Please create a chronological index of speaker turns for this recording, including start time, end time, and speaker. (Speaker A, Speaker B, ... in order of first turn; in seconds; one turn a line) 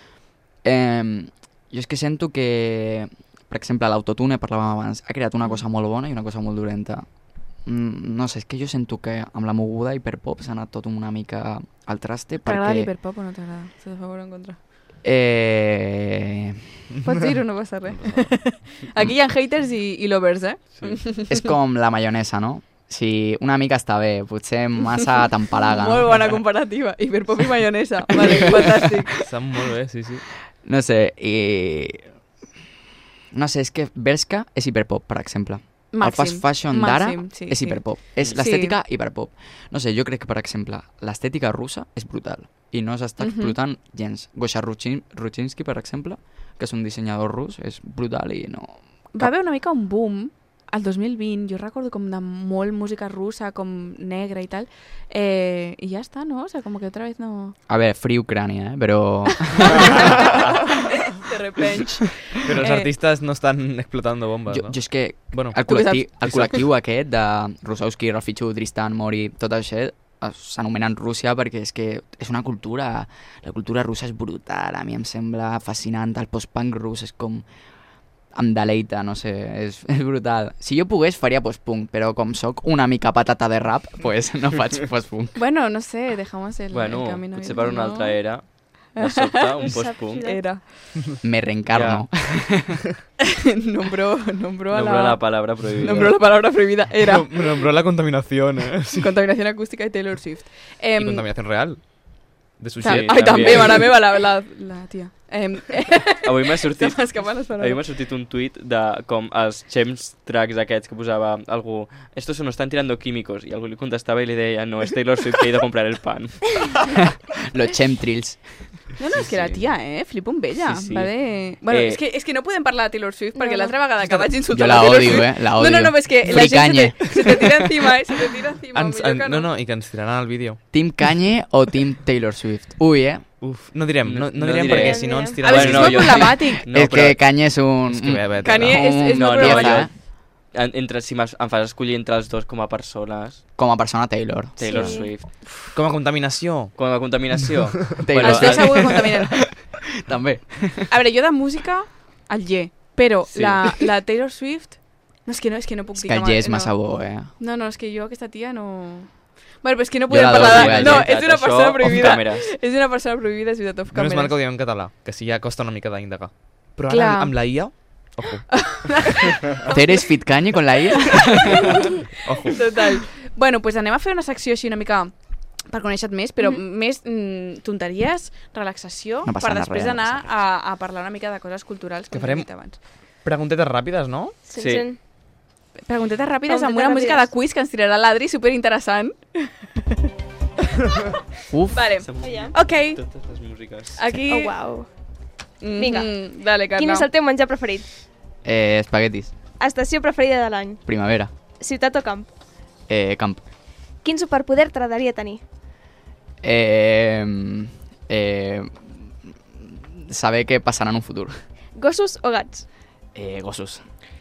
Speaker A: 0.6-12.9
Speaker B: 12.4-14.6
Speaker A: 15.0-16.6
Speaker B: 17.0-21.5
Speaker C: 17.9-18.4
Speaker A: 21.3-26.4
Speaker B: 25.6-29.1
Speaker C: 29.2-30.2
Speaker A: 30.6-32.1
Speaker A: 33.3-49.3
Speaker B: 35.9-38.8
Speaker B: 43.2-43.6
Speaker B: 49.1-57.6
Speaker A: 57.7-60.4
Speaker B: 59.7-62.9
Speaker C: 62.4-65.6
Speaker A: 64.5-77.5
Speaker B: 65.7-66.1
Speaker C: 66.2-66.6
Speaker A: 78.3-85.4
Speaker B: 85.4-88.4
Speaker D: 86.7-90.3
Speaker B: 89.0-90.6
Speaker E: 89.6-90.5
Speaker A: 91.2-92.8
Speaker D: 91.7-92.0
Speaker B: 93.2-97.4
Speaker D: 94.7-96.2
Speaker C: 97.0-99.2
Speaker B: 98.9-101.3
Speaker C: 101.0-103.9
Speaker B: 102.8-107.8
Speaker D: 102.8-103.9
Speaker D: 106.2-116.8
Speaker A: 117.5-118.4
Speaker B: 119.0-129.5
Speaker D: 119.2-119.6
Speaker D: 120.6-122.0
Speaker E: 123.3-123.8
Speaker C: 124.0-124.3
Speaker A: 124.5-127.4
Speaker C: 128.7-130.6
Speaker A: 130.7-133.2
Speaker C: 133.4-136.3
Speaker D: 134.0-137.2
Speaker E: 134.6-135.4
Speaker B: 135.4-136.6
Speaker A: 136.6-139.9
Speaker C: 137.9-138.9
Speaker B: 138.4-139.9
Speaker D: 139.1-143.4
Speaker A: 143.6-145.1
Speaker D: 144.6-145.4
Speaker E: 144.6-145.1
Speaker C: 145.7-146.8
Speaker D: 146.8-148.8
Speaker A: 148.0-150.9
Speaker B: 148.2-149.5
Speaker B: 150.9-164.4
Speaker D: 153.3-153.6
Speaker A: 155.9-157.3
Speaker A: 160.1-161.1
Speaker C: 160.3-161.1
Speaker D: 160.7-162.5
Speaker C: 163.9-169.1
Speaker B: 166.9-170.1
Speaker A: 169.7-171.8
Speaker B: 171.0-175.1
Speaker C: 172.2-172.7
Speaker B: 175.7-182.8
Speaker A: 179.2-180.4
Speaker C: 182.1-182.5
Speaker C: 183.2-184.4
Speaker E: 184.5-185.0
Speaker D: 184.6-184.9
Speaker B: 185.9-190.0
Speaker E: 186.5-187.3
Speaker A: 191.5-191.9
Speaker B: 191.7-193.0
Speaker D: 192.0-194.0
Speaker E: 192.2-192.7
Speaker B: 193.9-194.6
Speaker E: 194.3-194.9
Speaker B: 195.6-197.1
Speaker E: 195.8-197.9
Speaker A: 198.4-199.3
Speaker E: 199.6-200.8
Speaker A: 200.9-201.3
Speaker E: 201.6-202.3
Speaker A: 202.9-203.4
Speaker E: 204.0-205.4
Speaker A: 206.4-209.1
Speaker A: 209.6-211.3
Speaker E: 211.8-212.7
Speaker A: 213.2-213.8